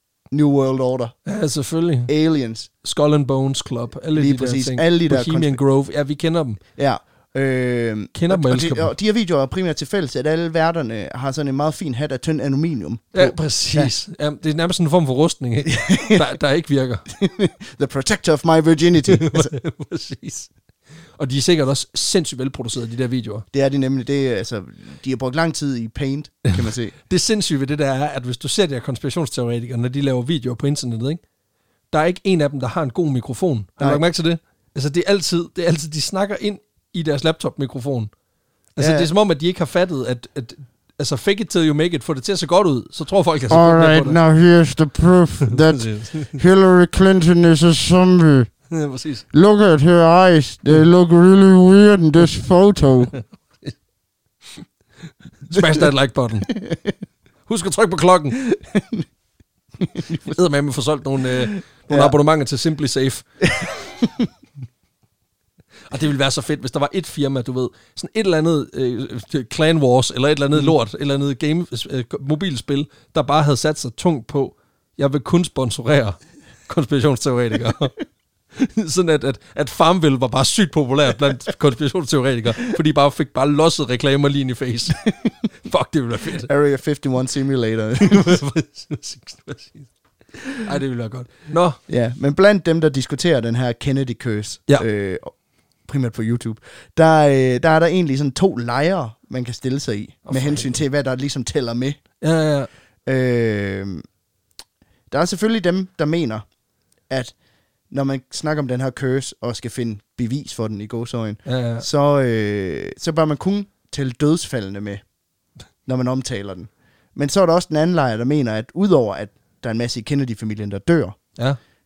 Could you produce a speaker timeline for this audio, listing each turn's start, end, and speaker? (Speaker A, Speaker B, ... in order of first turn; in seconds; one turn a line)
Speaker A: 0.3-1.1
Speaker B: 1.2-2.1
Speaker A: 2.1-2.7
Speaker B: 2.8-6.6
Speaker A: 4.1-5.6
Speaker A: 6.8-13.9
Speaker B: 8.1-8.9
Speaker B: 13.1-17.1
Speaker A: 15.7-16.2
Speaker A: 17.1-19.5
Speaker B: 19.1-20.5
Speaker B: 21.2-23.4
Speaker A: 23.5-26.9
Speaker B: 27.1-31.2
Speaker B: 31.9-38.1
Speaker B: 38.8-44.2
Speaker A: 38.8-39.1
Speaker C: 43.5-48.5
Speaker B: 45.4-46.4
Speaker B: 48.7-49.3
Speaker C: 49.3-53.1
Speaker B: 53.1-53.7
Speaker B: 55.4-56.6
Speaker A: 55.5-55.8
Speaker A: 56.5-56.9
Speaker B: 57.5-58.4
Speaker A: 58.4-59.0
Speaker A: 59.8-60.4
Speaker B: 60.1-63.2
Speaker A: 61.9-62.1
Speaker A: 63.4-64.3
Speaker B: 65.9-78.0
Speaker B: 78.5-86.5
Speaker A: 85.0-85.3
Speaker A: 86.4-88.4
Speaker B: 88.0-89.9
Speaker B: 90.6-91.8
Speaker A: 91.9-95.3
Speaker A: 95.9-102.0
Speaker B: 100.2-100.8
Speaker B: 102.2-102.7
Speaker A: 103.0-104.0
Speaker A: 105.1-106.4
Speaker A: 107.1-107.3
Speaker A: 107.9-115.0
Speaker B: 111.4-111.8
Speaker A: 115.8-121.2